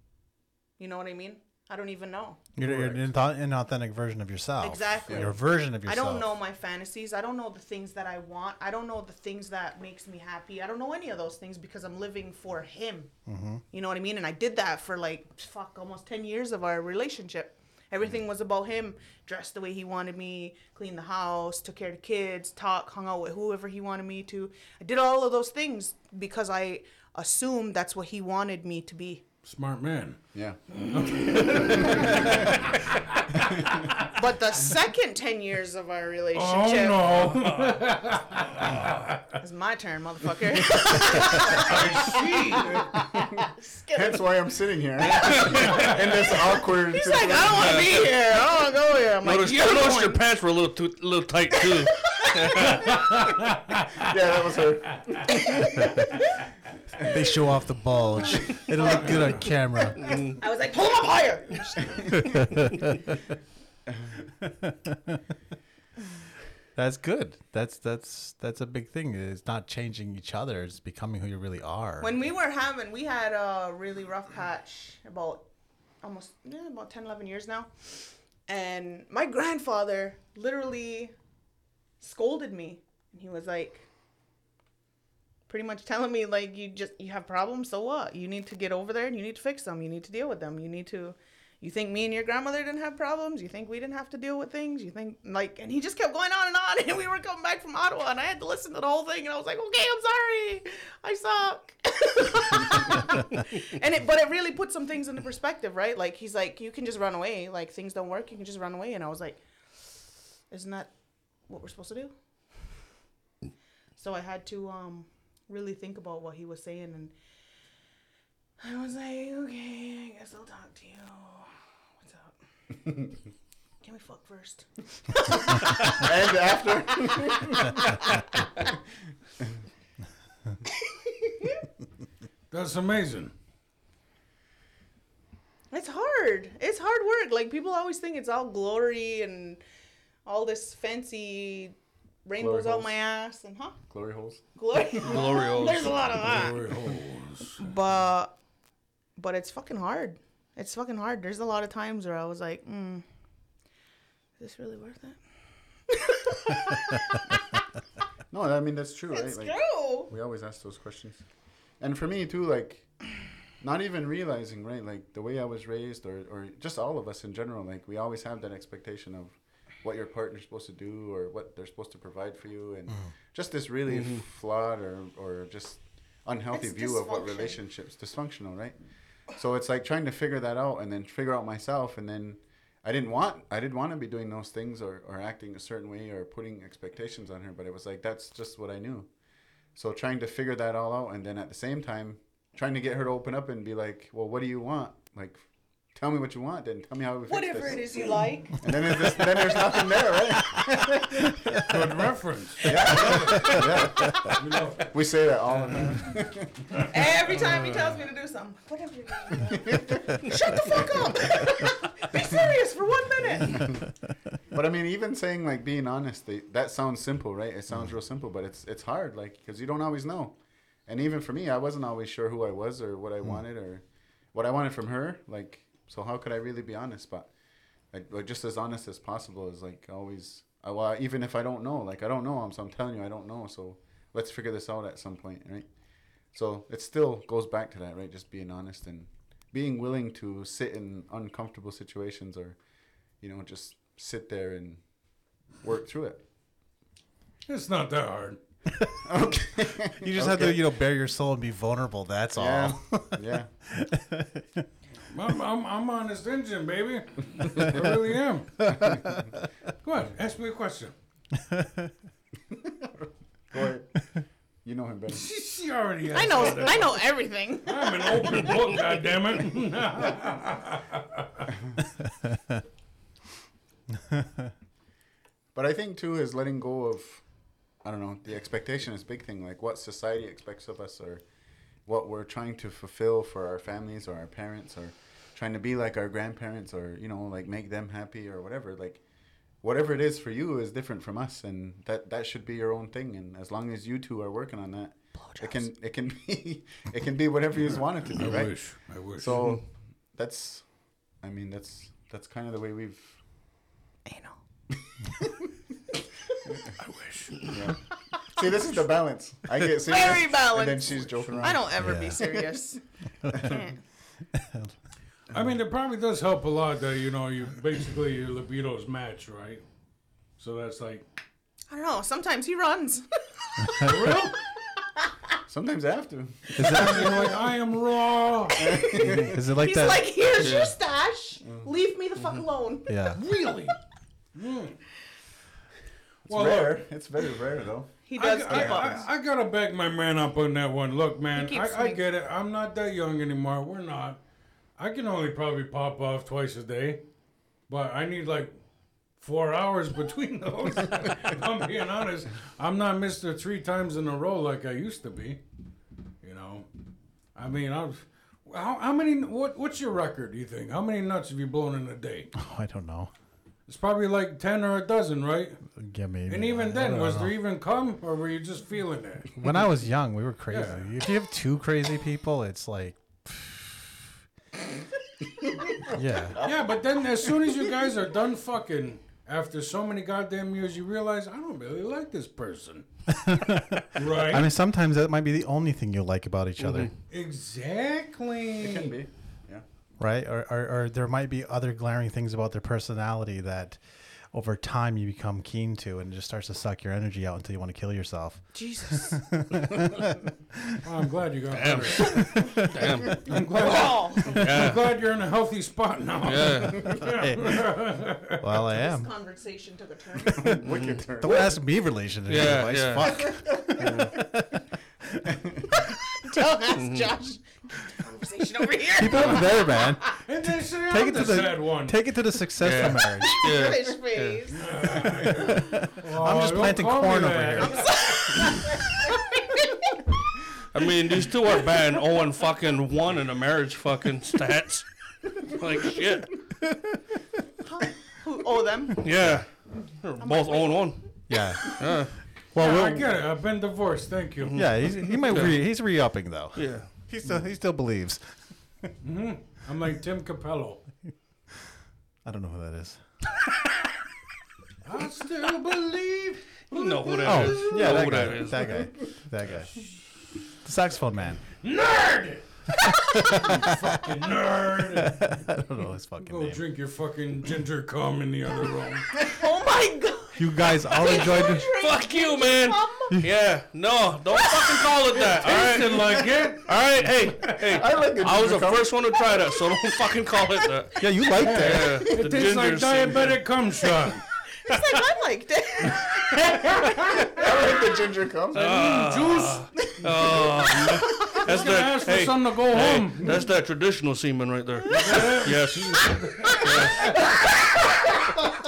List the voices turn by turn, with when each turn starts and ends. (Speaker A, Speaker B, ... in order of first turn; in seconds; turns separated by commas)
Speaker A: 0.8-2.4, Speaker B: 2.6-6.3, Speaker C: 2.6-3.0, Speaker A: 4.6-13.1, Speaker B: 13.3-13.6, Speaker A: 13.7-29.2, Speaker D: 29.4-30.2, Speaker C: 30.3-30.6, Speaker D: 30.9-34.0, Speaker C: 31.2-32.6, Speaker A: 34.1-37.1, Speaker D: 36.3-39.2, Speaker A: 39.4-44.2, Speaker D: 41.0-42.9, Speaker C: 42.6-47.8, Speaker E: 45.0-45.9, Speaker A: 45.1-50.2, Speaker E: 47.6-48.0, Speaker E: 49.2-52.9, Speaker A: 51.8-52.9, Speaker D: 52.6-54.1, Speaker C: 53.9-56.1, Speaker A: 55.3-56.2, Speaker B: 57.0-60.1, Speaker A: 58.2-59.5, Speaker E: 60.0-60.4, Speaker A: 60.0-62.2, Speaker B: 62.1-62.9, Speaker B: 64.4-65.2, Speaker B: 66.8-72.2, Speaker A: 72.0-75.5, Speaker A: 76.0-81.1, Speaker A: 82.0-83.9, Speaker A: 85.5-109.4, Speaker A: 110.5-110.9, Speaker A: 111.5-112.1, Speaker A: 114.0-117.1, Speaker A: 118.6-122.3, Speaker A: 123.8-126.2, Speaker C: 125.5-128.1, Speaker A: 126.9-128.6, Speaker A: 131.3-131.6, Speaker D: 132.5-133.3, Speaker A: 135.7-139.6, Speaker A: 140.2-143.8, Speaker C: 142.4-142.9, Speaker C: 143.9-144.8, Speaker A: 144.6-146.6, Speaker E: 145.0-145.9, Speaker D: 146.1-147.7, Speaker A: 147.6-148.4, Speaker A: 149.2-153.1, Speaker A: 154.4-155.2, Speaker A: 155.9-157.4, Speaker C: 158.3-161.2, Speaker A: 159.1-160.1, Speaker C: 161.8-162.9, Speaker C: 163.6-178.8, Speaker E: 173.9-174.2, Speaker A: 176.5-177.6, Speaker C: 179.3-189.1, Speaker C: 189.8-198.0, Speaker A: 197.3-200.0, Speaker C: 198.6-201.7, Speaker D: 201.5-203.7, Speaker C: 202.6-206.8, Speaker A: 202.9-204.3, Speaker D: 204.3-204.9, Speaker A: 206.8-213.8, Speaker C: 209.5-211.0, Speaker C: 213.5-213.9, Speaker C: 214.5-223.8, Speaker C: 224.3-227.3, Speaker C: 227.9-235.7, Speaker C: 236.3-242.6, Speaker C: 243.2-244.8, Speaker C: 245.6-246.2, Speaker D: 247.5-248.4, Speaker C: 248.9-250.6, Speaker B: 249.9-254.7, Speaker C: 252.3-253.5, Speaker D: 255.1-258.7, Speaker B: 258.6-259.4, Speaker D: 259.8-260.9, Speaker B: 261.3-261.9, Speaker C: 262.5-262.9, Speaker C: 263.5-264.1, Speaker C: 264.6-265.3, Speaker D: 265.1-267.0, Speaker A: 266.1-268.6, Speaker D: 267.6-271.5, Speaker B: 271.9-272.6, Speaker B: 273.9-274.5, Speaker C: 275.6-277.2, Speaker C: 277.8-281.2, Speaker C: 281.9-289.0, Speaker C: 289.6-298.6, Speaker A: 295.2-295.7, Speaker D: 298.1-299.6, Speaker C: 299.1-300.6, Speaker C: 301.2-303.2, Speaker A: 304.1-304.4, Speaker C: 304.9-305.5, Speaker C: 306.4-306.7, Speaker D: 306.8-307.6, Speaker C: 307.5-312.5, Speaker A: 309.7-313.8, Speaker B: 311.8-312.3, Speaker B: 313.2-313.6, Speaker C: 313.3-313.6, Speaker B: 314.3-314.7, Speaker D: 315.3-319.6, Speaker D: 320.4-321.1, Speaker A: 321.7-323.1, Speaker B: 323.6-324.1, Speaker A: 323.6-324.2, Speaker D: 323.8-324.4, Speaker C: 325.4-327.4, Speaker B: 326.6-327.4, Speaker D: 326.6-328.8, Speaker C: 328.6-329.4, Speaker A: 328.6-333.0, Speaker B: 329.0-330.1, Speaker E: 330.4-330.8, Speaker B: 332.9-333.2, Speaker D: 333.1-333.8, Speaker D: 334.3-334.8, Speaker D: 336.3-336.9, Speaker C: 336.3-337.9, Speaker A: 338.1-339.1, Speaker D: 338.1-344.2, Speaker C: 338.5-339.0, Speaker A: 341.4-342.0, Speaker D: 344.8-347.0, Speaker D: 347.7-348.5, Speaker D: 349.2-355.4, Speaker D: 356.2-356.7, Speaker D: 357.4-362.3, Speaker B: 362.3-363.1, Speaker D: 363.7-365.6, Speaker B: 365.8-367.3, Speaker D: 366.3-369.4, Speaker B: 369.4-374.0, Speaker D: 370.5-370.9, Speaker B: 375.8-376.5, Speaker D: 376.4-382.9, Speaker B: 383.1-386.9, Speaker D: 383.9-384.5, Speaker E: 386.6-386.9, Speaker D: 387.1-388.9, Speaker C: 388.6-389.6, Speaker B: 390.0-400.9, Speaker A: 398.5-399.2, Speaker D: 400.8-402.6, Speaker E: 401.5-403.3, Speaker A: 402.2-402.6, Speaker B: 402.2-402.8, Speaker D: 403.1-408.4, Speaker A: 403.5-404.4, Speaker E: 404.3-404.8, Speaker E: 406.2-406.9, Speaker B: 407.0-407.7, Speaker B: 408.4-409.1, Speaker A: 408.7-410.6, Speaker C: 410.3-411.6, Speaker B: 410.4-410.6, Speaker E: 410.7-411.0, Speaker B: 411.1-414.6, Speaker E: 412.3-413.3, Speaker C: 413.4-414.0, Speaker E: 413.8-414.1, Speaker C: 415.2-415.7, Speaker A: 415.8-420.0, Speaker E: 416.8-417.1, Speaker B: 418.9-423.4, Speaker D: 420.3-422.0, Speaker E: 422.6-424.5, Speaker A: 423.4-424.7, Speaker D: 424.5-428.0, Speaker B: 425.1-427.9, Speaker A: 427.6-430.0, Speaker E: 430.7-434.9, Speaker E: 435.4-436.4, Speaker A: 437.6-439.1, Speaker E: 439.0-442.1, Speaker A: 440.2-441.0, Speaker B: 441.3-442.0, Speaker B: 442.5-443.2, Speaker D: 442.6-444.6, Speaker B: 444.6-448.2, Speaker E: 445.3-445.6, Speaker E: 446.6-446.9, Speaker D: 449.0-450.8, Speaker B: 452.2-453.0, Speaker D: 454.8-458.3, Speaker E: 456.7-458.9, Speaker B: 457.2-459.8, Speaker D: 459.4-459.9, Speaker B: 460.6-461.4, Speaker D: 461.6-462.4, Speaker B: 463.0-464.0, Speaker D: 463.3-465.4, Speaker B: 464.9-466.6, Speaker D: 466.2-469.1, Speaker A: 469.2-473.2, Speaker B: 470.4-471.7, Speaker E: 471.6-483.4, Speaker A: 474.3-474.9, Speaker D: 475.1-477.8, Speaker C: 477.6-478.9, Speaker B: 481.0-482.1, Speaker D: 481.4-484.2, Speaker A: 484.6-488.1, Speaker D: 486.4-487.4, Speaker C: 487.2-488.6, Speaker D: 488.5-489.9, Speaker E: 488.5-497.3, Speaker D: 491.3-493.4, Speaker D: 494.9-497.2, Speaker A: 494.9-495.2, Speaker A: 496.5-497.7